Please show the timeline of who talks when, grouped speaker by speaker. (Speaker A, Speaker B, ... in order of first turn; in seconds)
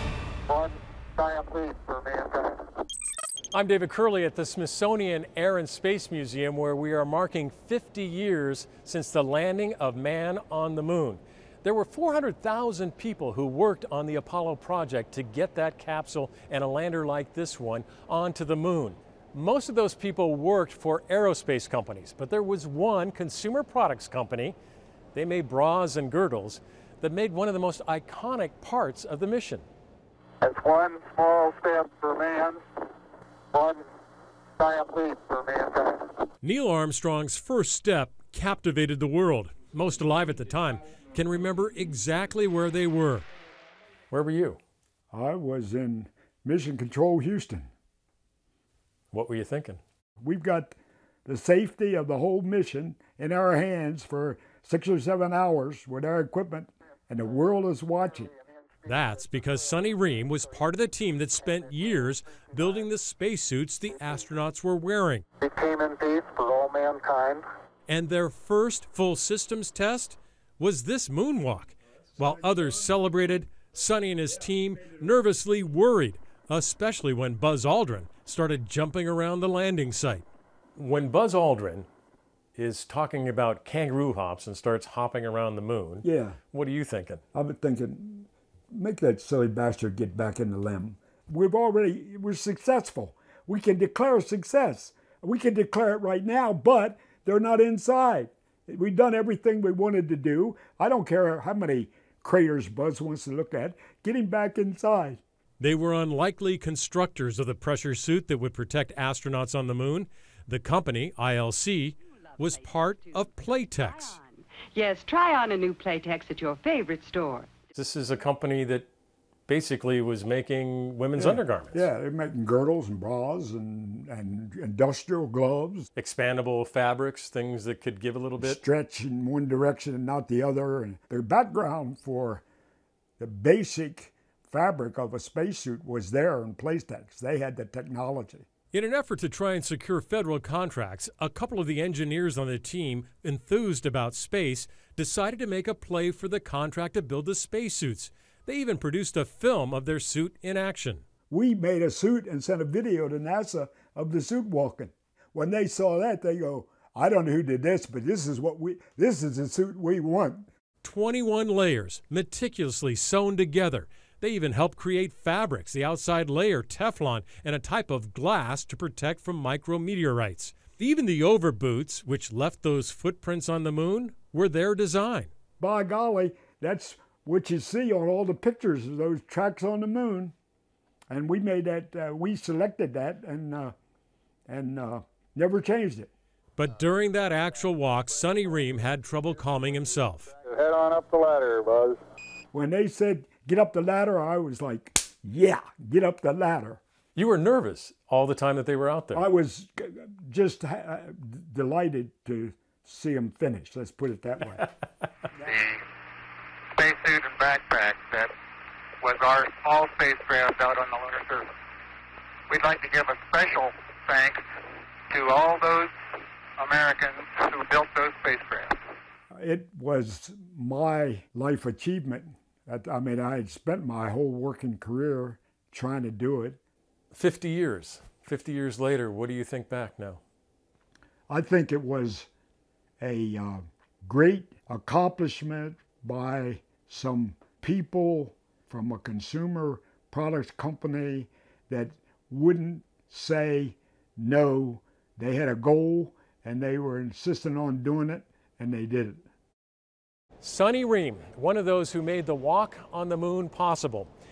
Speaker A: 0.5-2.7, 30.4-32.6, 33.5-33.9, 34.6-36.1, 58.8-59.9, 65.4-67.4, 190.4-192.0, 205.4-205.8, 206.7-208.3, 209.0-211.5, 212.5-214.4, 215.1-215.9, 216.6-218.8
Speaker B: 3.5-24.6, 25.1-29.7, 36.4-43.2, 44.1-44.6, 49.1-49.8, 58.8-65.2, 67.9-81.9, 82.5-87.2, 105.6-114.2, 117.7-118.9, 119.5-121.8, 125.9-128.6, 138.7-151.0, 160.8-175.3, 186.6-190.3, 197.1-199.2, 227.1-230.2, 250.4-254.1
Speaker C: 45.1-47.7, 50.2-58.3, 86.0-86.4, 87.3-105.2, 121.2-125.9, 128.4-132.4, 133.2-138.5, 151.3-160.4, 175.6-180.3, 181.1-183.7, 184.5-186.1, 192.5-196.8, 199.1-204.7, 219.3-226.6, 231.3-232.3, 233.0-249.2
Speaker D: 112.3-117.5